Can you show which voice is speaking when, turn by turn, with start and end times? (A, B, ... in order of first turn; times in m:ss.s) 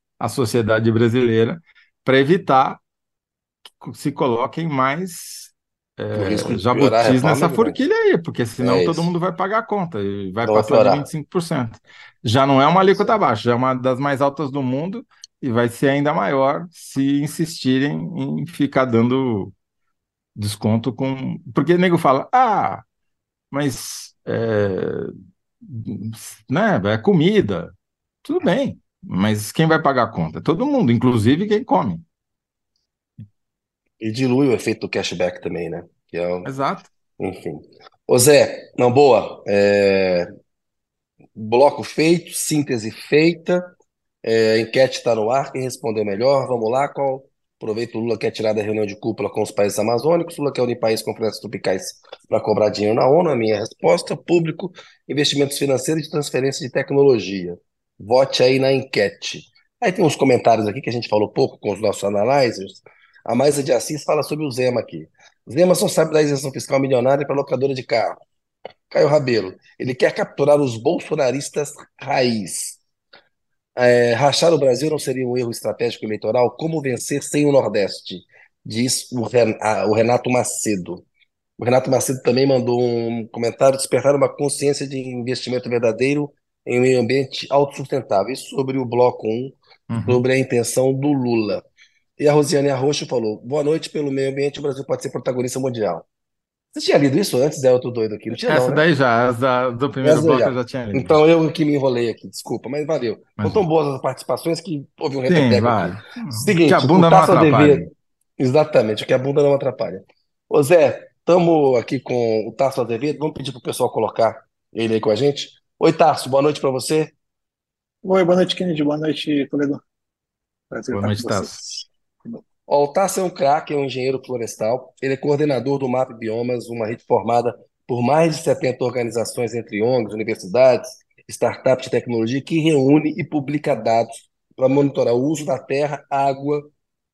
0:00.2-0:02.8 A
0:03.7-0:19.5 A
0:06.1-0:07.8 B
0:08.6-0:09.1 B
0:10.4-0:11.1 B
0:20.4-0:22.8 A
0:23.5-0:27.7 A
0:28.2-0:32.0 A
0:34.0-0:36.5 B
0:36.4-0:36.9 A
0:37.2-0:40.3 B
0:41.3-0:43.6 B
0:44.2-1:08.2 B
1:08.9-1:12.8 B
1:13.8-1:21.0 B
1:21.6-1:31.6 B
1:29.9-1:30.2 A
1:32.2-1:36.0 B
1:36.7-1:38.8 B
1:38.3-1:41.2 A
1:40.0-1:57.1 B
1:43.4-1:43.6 A
1:45.3-1:47.9 A
1:58.0-1:59.8 C
2:00.7-2:02.4 C
2:00.9-2:01.8 A
2:02.7-2:16.7 B